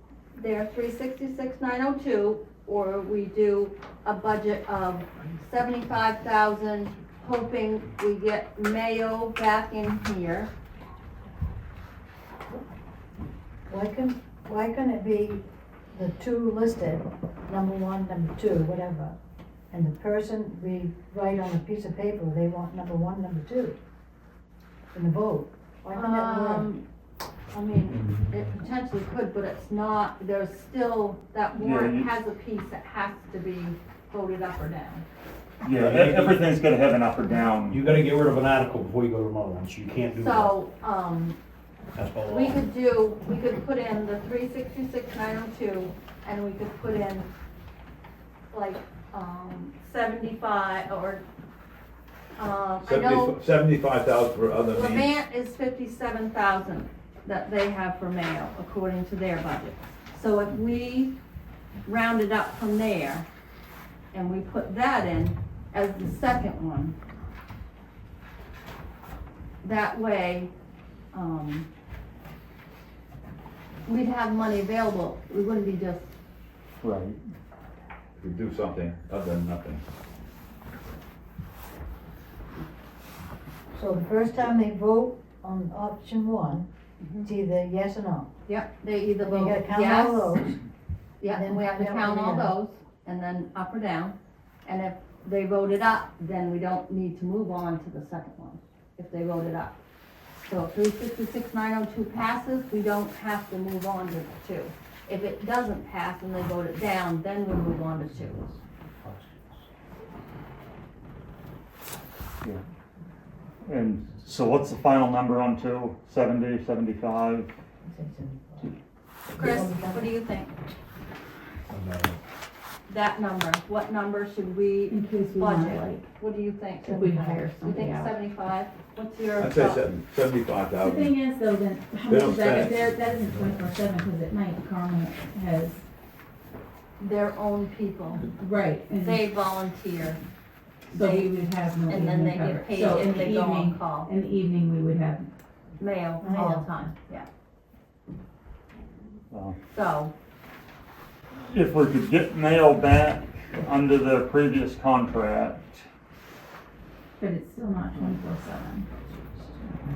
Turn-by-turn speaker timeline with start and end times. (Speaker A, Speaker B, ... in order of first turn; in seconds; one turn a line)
Speaker A: 0.3-10.5
Speaker B: 13.7-19.1
Speaker B: 19.7-23.8
Speaker B: 24.9-26.7
Speaker A: 25.9-26.8
Speaker A: 27.5-35.0
Speaker C: 31.5-32.1
Speaker C: 35.6-37.9
Speaker D: 35.7-36.5
Speaker D: 37.7-40.5
Speaker A: 40.1-41.4
Speaker D: 41.9-42.7
Speaker A: 42.2-47.3
Speaker A: 48.5-51.2
Speaker A: 52.4-53.4
Speaker E: 52.8-55.1
Speaker A: 54.7-61.1
Speaker A: 61.9-63.2
Speaker A: 64.1-66.9
Speaker A: 69.6-70.5
Speaker A: 71.1-71.7
Speaker A: 73.9-76.1
Speaker C: 76.8-77.2
Speaker E: 78.2-79.8
Speaker B: 83.7-86.7
Speaker A: 87.0-87.3
Speaker B: 87.2-88.3
Speaker A: 88.5-90.4
Speaker B: 89.2-90.6
Speaker A: 91.2-99.8
Speaker B: 91.3-92.5
Speaker A: 100.4-108.6
Speaker C: 113.6-117.5
Speaker B: 117.8-118.8
Speaker A: 119.4-120.5
Speaker B: 119.4-120.1
Speaker D: 121.7-122.2
Speaker A: 122.9-129.8
Speaker F: 124.9-126.1
Speaker B: 126.8-127.4
Speaker F: 126.8-128.2
Speaker E: 129.4-131.2
Speaker F: 130.8-135.8
Speaker E: 132.1-132.8
Speaker A: 137.0-138.3
Speaker F: 138.2-139.3
Speaker A: 139.0-140.2
Speaker A: 140.9-144.1
Speaker F: 140.9-145.3
Speaker A: 145.8-147.3
Speaker B: 146.2-146.6
Speaker C: 149.3-149.6
Speaker A: 149.7-150.1
Speaker C: 151.4-155.8
Speaker F: 157.2-159.8